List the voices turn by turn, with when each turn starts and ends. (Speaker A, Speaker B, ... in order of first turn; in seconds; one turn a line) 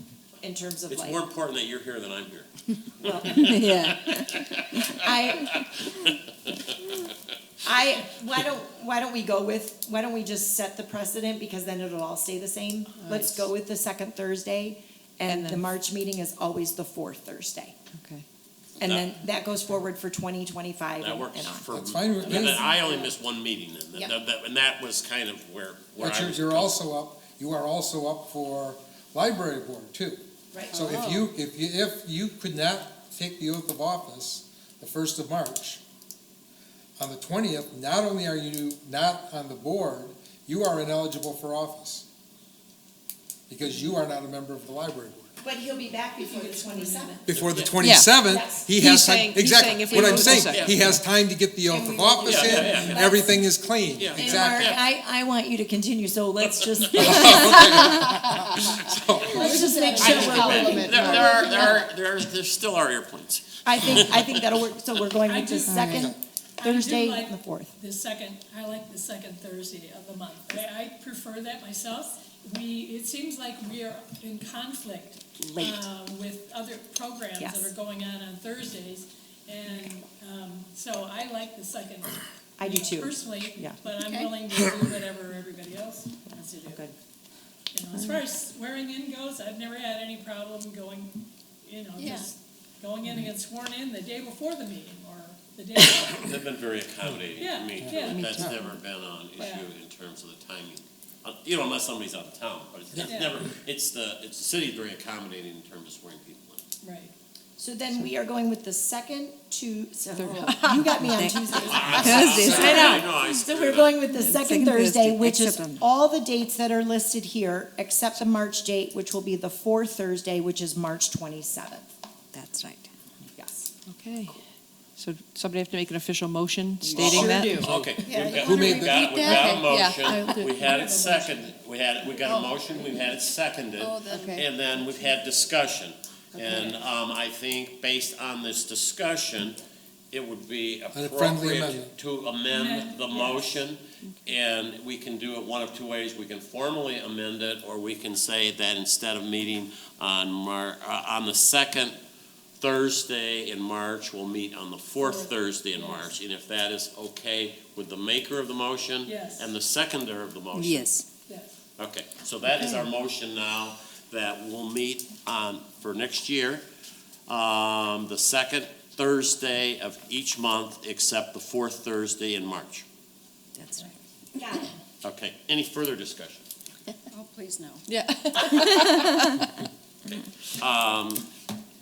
Speaker A: 0.4-1.2
Speaker B: 0.9-7.0
Speaker A: 3.0-4.2
Speaker C: 3.3-4.4
Speaker A: 4.8-5.7
Speaker A: 7.6-17.7
Speaker C: 13.0-13.4
Speaker C: 15.3-15.7
Speaker C: 17.9-18.2
Speaker B: 18.8-19.1
Speaker A: 18.8-21.7
Speaker B: 21.0-26.8
Speaker D: 21.7-22.7
Speaker A: 22.3-22.7
Speaker D: 26.0-35.8
Speaker A: 30.5-31.0
Speaker C: 30.9-31.2
Speaker D: 37.0-42.0
Speaker D: 43.5-45.3
Speaker A: 45.4-47.3
Speaker E: 46.3-47.2
Speaker D: 47.3-54.7
Speaker B: 47.3-47.8
Speaker C: 47.8-48.2
Speaker A: 48.2-48.7
Speaker C: 48.7-51.0
Speaker A: 50.0-50.5
Speaker B: 50.3-50.9
Speaker A: 51.7-53.4
Speaker B: 52.2-53.1
Speaker B: 54.0-54.8
Speaker A: 54.1-58.0
Speaker B: 56.4-57.4
Speaker D: 56.9-59.6
Speaker E: 59.2-61.8
Speaker A: 59.2-61.8
Speaker F: 59.5-61.4
Speaker B: 60.0-64.5
Speaker A: 63.6-67.7
Speaker E: 65.2-65.8
Speaker C: 65.7-66.1
Speaker E: 66.6-86.8
Speaker A: 75.4-75.8
Speaker A: 77.4-77.7
Speaker A: 82.6-83.8
Speaker F: 84.0-84.3
Speaker A: 86.6-86.9
Speaker E: 87.7-96.3
Speaker C: 87.9-88.2
Speaker F: 92.0-92.3
Speaker B: 96.2-106.6
Speaker E: 97.4-98.5
Speaker D: 97.8-98.5
Speaker C: 98.1-98.5
Speaker E: 99.4-99.7
Speaker E: 103.1-103.4
Speaker E: 106.8-107.1
Speaker A: 107.6-121.9
Speaker C: 110.1-113.1
Speaker B: 111.5-114.0
Speaker C: 114.1-115.8
Speaker C: 122.3-122.9
Speaker A: 123.3-123.7
Speaker C: 123.9-124.4
Speaker C: 125.0-127.6
Speaker D: 126.9-129.5
Speaker B: 126.9-139.6
Speaker A: 127.0-127.3
Speaker F: 127.4-129.5
Speaker A: 128.1-128.8
Speaker C: 129.2-130.5
Speaker E: 130.3-131.5
Speaker F: 132.3-132.6
Speaker F: 133.8-134.4
Speaker C: 134.1-134.4
Speaker B: 140.1-152.0
Speaker D: 140.9-141.9
Speaker E: 142.5-143.5
Speaker B: 152.6-160.9
Speaker E: 155.0-156.2
Speaker E: 159.1-159.5
Speaker C: 160.6-161.0
Speaker E: 161.3-161.5
Speaker B: 161.8-166.6
Speaker B: 167.3-172.8
Speaker C: 173.6-173.9
Speaker A: 174.4-174.7
Speaker B: 175.0-176.4
Speaker F: 177.1-177.8
Speaker C: 177.9-179.4
Speaker B: 180.1-181.2